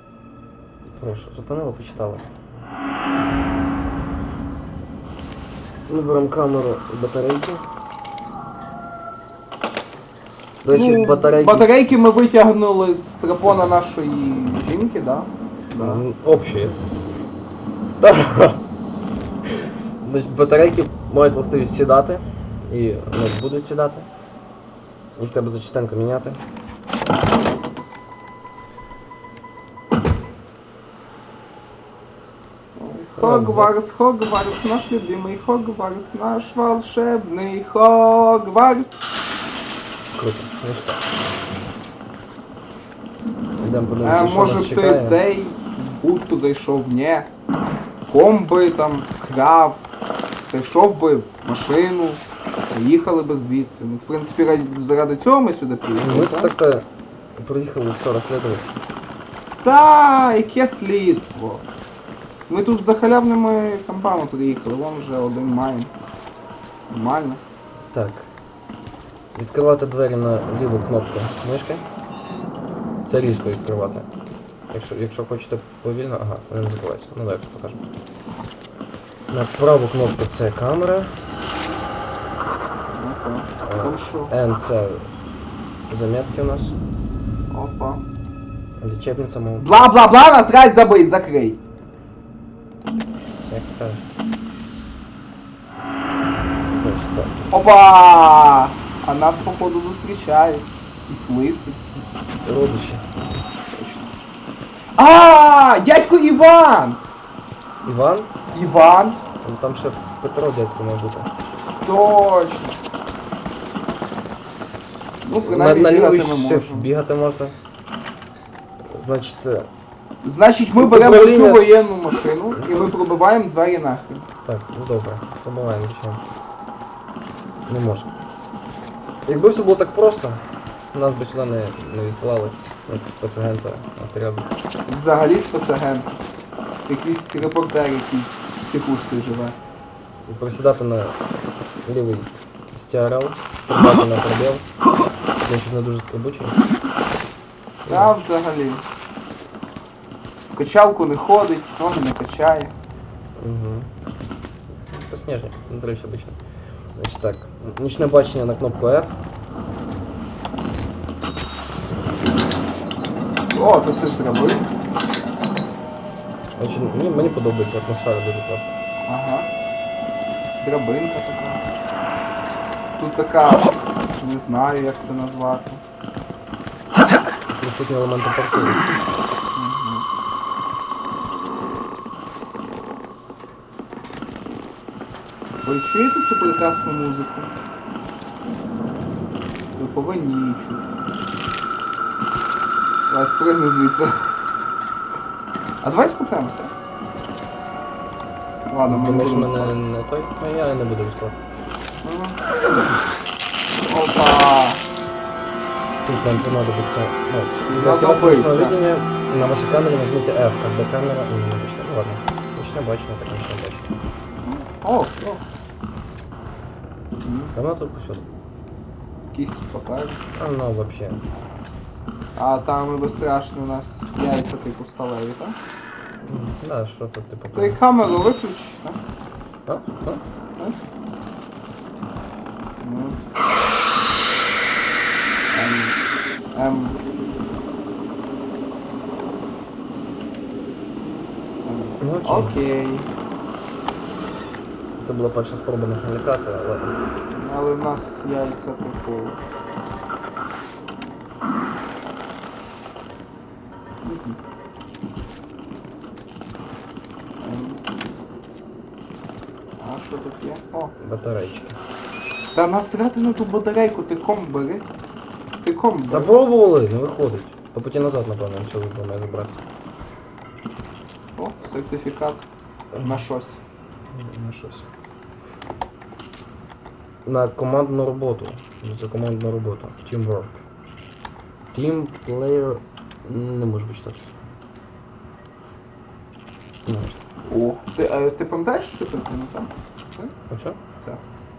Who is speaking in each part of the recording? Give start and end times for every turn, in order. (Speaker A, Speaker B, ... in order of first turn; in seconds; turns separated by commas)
Speaker A: 1.0-2.2, Speaker A: 5.9-7.6, Speaker A: 10.6-11.9, Speaker B: 10.7-16.0, Speaker A: 13.4-13.7, Speaker A: 15.8-16.8, Speaker A: 18.0-18.6, Speaker A: 20.0-24.1, Speaker A: 25.2-26.4, Speaker B: 32.8-39.1, Speaker A: 33.2-33.7, Speaker A: 40.1-41.0, Speaker A: 43.6-45.2, Speaker B: 44.0-47.3, Speaker B: 48.1-49.8, Speaker B: 50.5-56.5, Speaker A: 56.0-56.9, Speaker A: 57.4-58.8, Speaker B: 59.6-61.6, Speaker B: 62.5-65.9, Speaker B: 66.9-67.4, Speaker A: 67.9-68.3, Speaker A: 69.3-71.8, Speaker A: 73.0-74.1, Speaker A: 74.7-77.8, Speaker A: 79.3-81.1, Speaker B: 82.9-84.3, Speaker A: 83.6-85.1, Speaker A: 85.9-86.8, Speaker B: 87.5-88.0, Speaker A: 88.8-90.0, Speaker B: 89.6-91.6, Speaker A: 93.5-94.0, Speaker A: 96.7-97.5, Speaker B: 97.5-101.8, Speaker A: 102.4-103.0, Speaker B: 103.7-104.0, Speaker B: 105.0-107.0, Speaker A: 107.8-108.3, Speaker B: 108.5-109.2, Speaker A: 109.4-111.3, Speaker B: 111.8-112.8, Speaker B: 115.2-116.9, Speaker A: 115.5-117.5, Speaker A: 118.9-119.7, Speaker B: 120.2-124.3, Speaker A: 120.8-121.8, Speaker A: 122.5-122.9, Speaker A: 124.4-126.2, Speaker A: 127.7-128.1, Speaker A: 129.2-130.4, Speaker A: 130.9-134.5, Speaker B: 134.9-136.1, Speaker B: 136.8-139.5, Speaker A: 140.2-141.2, Speaker A: 141.8-144.6, Speaker A: 145.4-146.6, Speaker A: 147.8-148.2, Speaker B: 147.9-148.8, Speaker B: 150.5-152.7, Speaker A: 153.4-153.9, Speaker A: 155.1-156.4, Speaker A: 156.9-159.2, Speaker B: 163.5-164.6, Speaker A: 166.6-168.8, Speaker B: 169.1-169.5, Speaker B: 170.6-171.6, Speaker B: 173.0-175.8, Speaker A: 177.5-178.8, Speaker B: 179.5-180.1, Speaker B: 185.6-187.5, Speaker B: 189.7-190.9, Speaker B: 193.1-194.1, Speaker B: 195.8-196.7, Speaker B: 198.7-199.9, Speaker A: 198.8-201.4, Speaker B: 202.0-202.4, Speaker B: 203.9-204.8, Speaker A: 206.0-213.9, Speaker B: 207.7-208.8, Speaker B: 214.4-215.4, Speaker B: 217.2-217.5, Speaker A: 217.5-218.2, Speaker B: 219.3-220.2, Speaker A: 220.3-221.2, Speaker B: 222.3-225.6, Speaker A: 226.2-227.8, Speaker B: 227.5-229.0, Speaker A: 229.7-230.2, Speaker B: 232.8-233.2, Speaker B: 235.5-236.0, Speaker B: 236.5-237.0, Speaker B: 241.6-243.1, Speaker A: 242.0-242.5, Speaker A: 245.0-246.9, Speaker B: 247.3-249.4, Speaker B: 254.0-254.4, Speaker B: 257.4-257.8, Speaker B: 259.8-260.9, Speaker A: 261.0-261.8, Speaker B: 262.5-264.9, Speaker B: 265.6-266.3, Speaker A: 266.1-269.6, Speaker B: 271.4-272.4, Speaker A: 272.9-273.2, Speaker B: 273.0-273.6, Speaker A: 274.1-274.9, Speaker A: 277.2-280.6, Speaker A: 281.7-284.2, Speaker A: 286.8-287.2, Speaker B: 287.4-290.3, Speaker A: 290.5-290.8